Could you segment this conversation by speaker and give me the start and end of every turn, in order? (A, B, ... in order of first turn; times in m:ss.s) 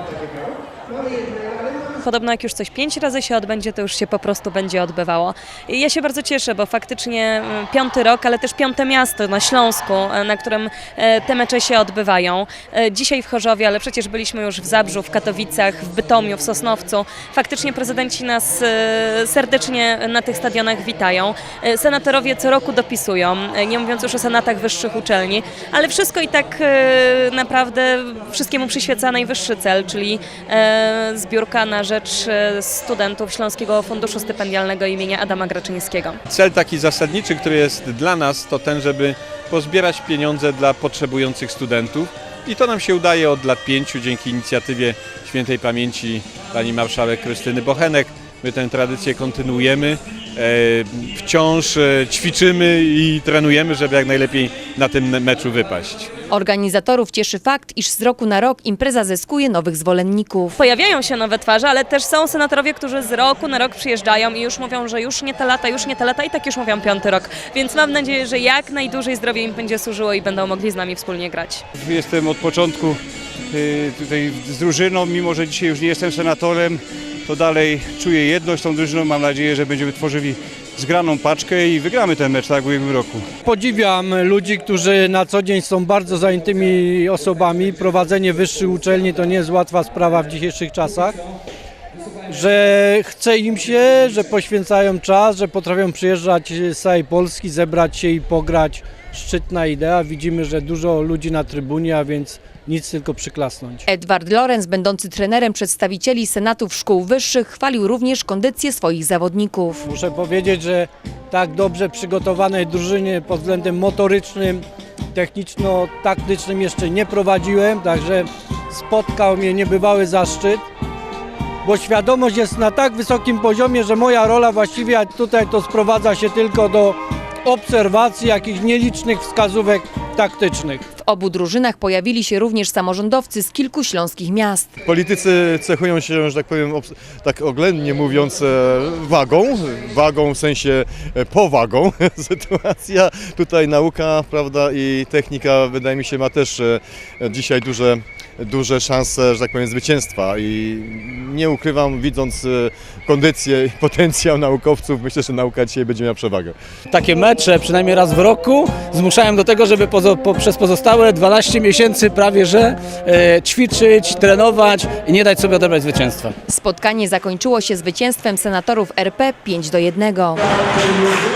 0:02.0-0:36.2 A
0:36.3-0:56.1 B
0:56.3-1:00.6 C
1:00.6-1:11.6 A
1:11.8-1:13.0 D
1:13.5-1:23.3 D
1:23.4-1:31.2 E
1:32.3-1:43.8 E
1:43.9-1:49.9 C
1:49.8-2:00.6 E
2:01.6-2:10.9 E
2:11.0-2:14.7 C
2:14.8-2:36.6 F
2:36.9-2:46.3 G
2:46.5-2:50.4 C